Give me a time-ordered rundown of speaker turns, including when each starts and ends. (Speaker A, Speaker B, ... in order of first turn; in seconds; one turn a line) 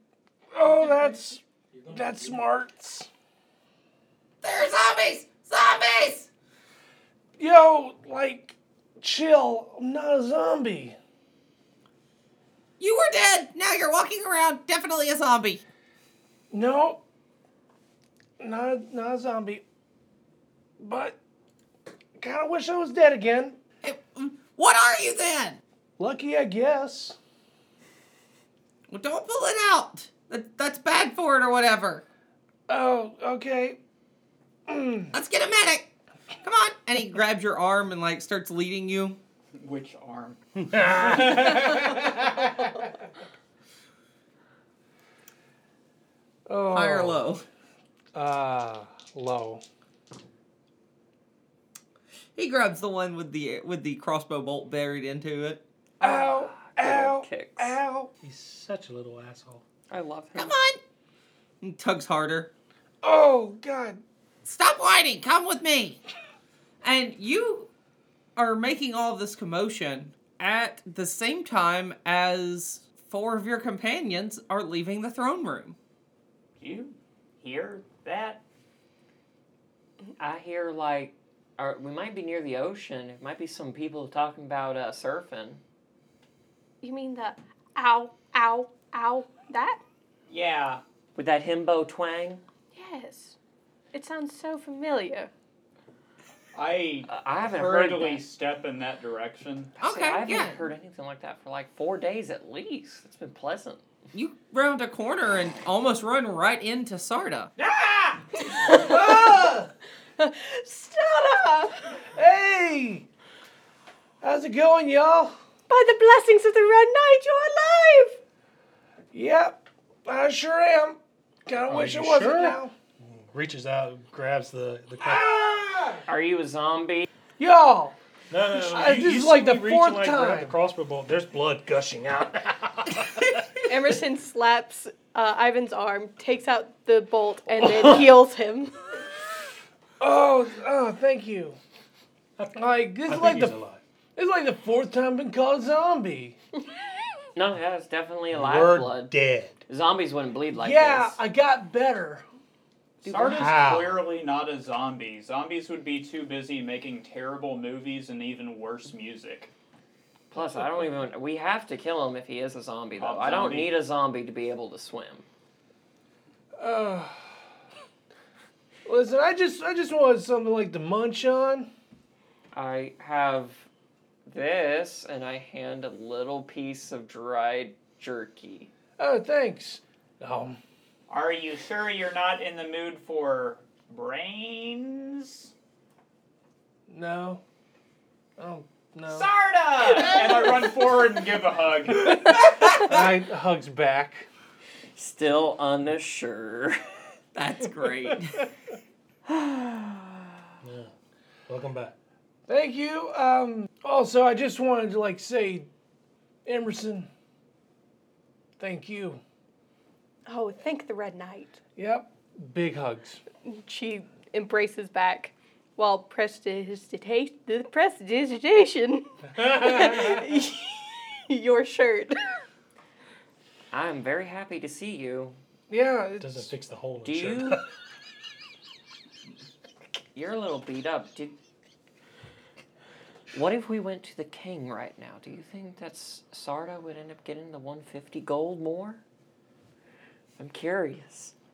Speaker A: 0.5-3.1
Speaker B: 1.7-2.4
Speaker C: 4.4-6.3
Speaker A: 7.4-10.9
Speaker C: 12.8-15.6
Speaker A: 16.5-17.0
Speaker A: 18.4-19.6
Speaker A: 20.8-21.1
Speaker A: 22.2-23.6
Speaker C: 23.8-25.6
Speaker A: 26.0-27.2
Speaker C: 28.9-32.0
Speaker A: 32.7-33.8
Speaker A: 34.7-35.1
Speaker C: 35.1-35.9
Speaker C: 36.4-39.2
Speaker D: 39.5-42.1
Speaker B: 40.7-41.6
Speaker A: 40.9-42.1
Speaker A: 46.5-47.3
Speaker C: 46.7-47.4
Speaker A: 48.1-49.6
Speaker C: 52.4-55.6
Speaker E: 56.0-57.8
Speaker A: 56.0-58.1
Speaker B: 58.2-59.6
Speaker E: 59.9-60.5
Speaker C: 60.3-60.8
Speaker C: 61.6-62.5
Speaker A: 63.0-64.0
Speaker C: 64.4-66.0
Speaker C: 66.8-67.7
Speaker C: 68.3-75.8
Speaker D: 76.6-78.4
Speaker E: 80.2-85.6
Speaker F: 86.8-89.8
Speaker D: 90.3-90.8
Speaker E: 91.2-92.4
Speaker F: 92.7-93.3
Speaker F: 93.9-95.3
Speaker D: 96.5-99.7
Speaker E: 97.1-98.2
Speaker E: 99.8-103.8
Speaker C: 99.8-100.6
Speaker C: 104.1-107.5
Speaker D: 107.6-108.2
Speaker F: 108.5-109.1
Speaker A: 108.6-109.7
Speaker F: 110.2-111.9
Speaker A: 112.1-113.0
Speaker A: 114.2-115.3
Speaker F: 115.7-118.2
Speaker A: 119.1-122.7
Speaker B: 121.7-125.4
Speaker A: 125.0-126.0
Speaker E: 126.0-127.1
Speaker A: 127.4-127.9
Speaker B: 128.3-133.9
Speaker A: 128.6-130.5
Speaker F: 133.7-138.8
Speaker A: 140.0-141.6
Speaker A: 142.6-143.5
Speaker B: 143.1-143.8
Speaker A: 144.2-146.3
Speaker E: 147.3-149.1
Speaker B: 148.3-149.6
Speaker E: 149.7-151.2
Speaker A: 150.5-152.2
Speaker D: 153.0-159.5
Speaker E: 153.1-153.4
Speaker A: 153.1-153.5
Speaker B: 153.3-154.0
Speaker E: 160.3-165.2
Speaker D: 163.0-163.7
Speaker A: 166.6-167.2
Speaker A: 168.8-171.7
Speaker E: 172.5-173.7
Speaker E: 174.2-178.7
Speaker A: 179.0-180.6
Speaker D: 181.1-185.5
Speaker A: 186.9-187.4
Speaker A: 188.4-189.3
Speaker D: 189.1-192.3
Speaker A: 192.0-194.2
Speaker E: 194.9-196.8
Speaker C: 197.3-198.5
Speaker E: 199.3-200.2
Speaker B: 200.6-200.9
Speaker B: 201.5-201.9
Speaker A: 202.5-205.7
Speaker A: 206.4-207.1
Speaker A: 208.6-209.2
Speaker F: 210.3-211.6
Speaker A: 211.8-213.2
Speaker F: 213.4-222.3
Speaker E: 223.7-225.4
Speaker A: 225.7-226.5
Speaker B: 226.2-227.7
Speaker E: 227.0-227.6
Speaker E: 230.1-231.3
Speaker E: 233.3-239.0
Speaker E: 240.4-241.3